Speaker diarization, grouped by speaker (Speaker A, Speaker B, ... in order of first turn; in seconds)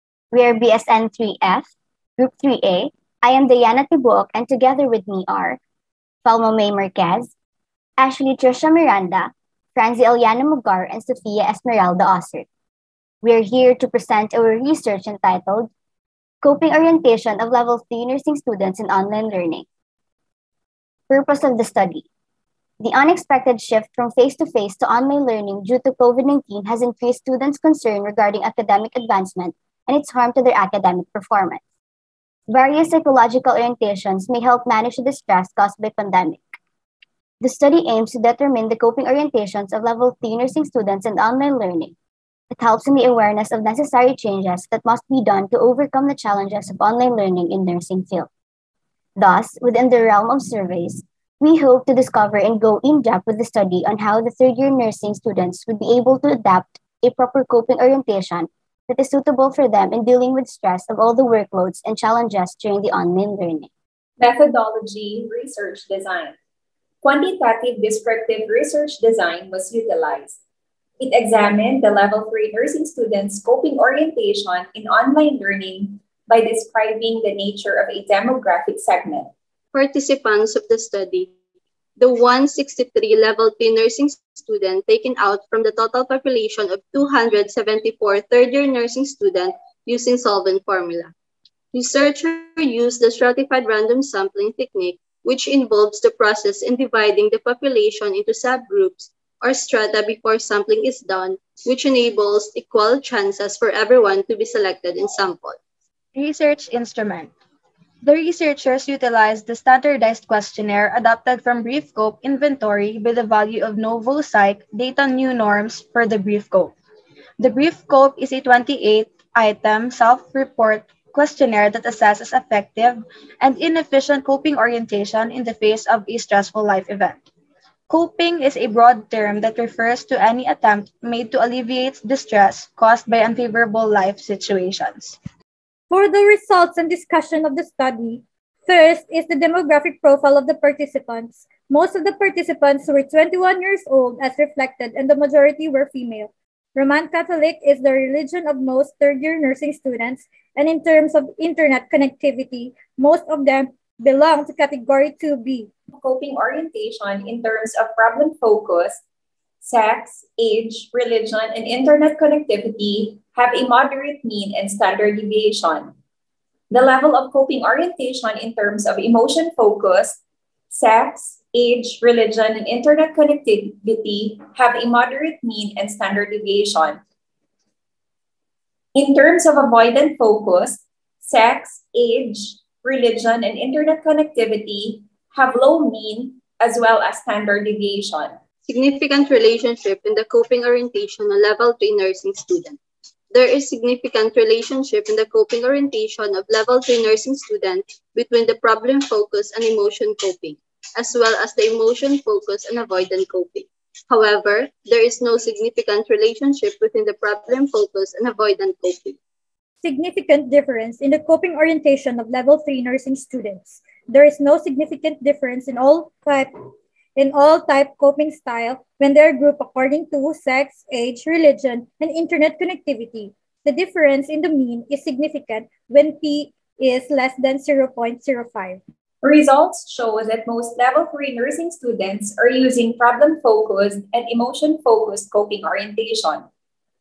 Speaker A: 0.3-5.6, 6.2-7.3, 8.0-12.5, 13.2-15.7, 16.4-19.7, 21.1-22.1, 22.8-31.6, 32.5-36.6, 37.4-41.9, 42.5-48.3, 49.2-63.7
Speaker B: 64.2-66.3, 67.0-70.4, 71.0-79.3, 155.9-159.0, 159.6-165.9, 166.7-170.2, 170.7-177.0, 178.9-188.3, 229.2-236.5
Speaker C: 79.7-81.3, 82.0-91.1, 91.7-105.6, 188.7-192.8, 193.3-209.2
Speaker D: 106.1-107.3, 108.0-116.8, 117.4-127.2, 127.9-135.2
Speaker E: 135.9-155.7, 209.8-216.5, 217.2-228.8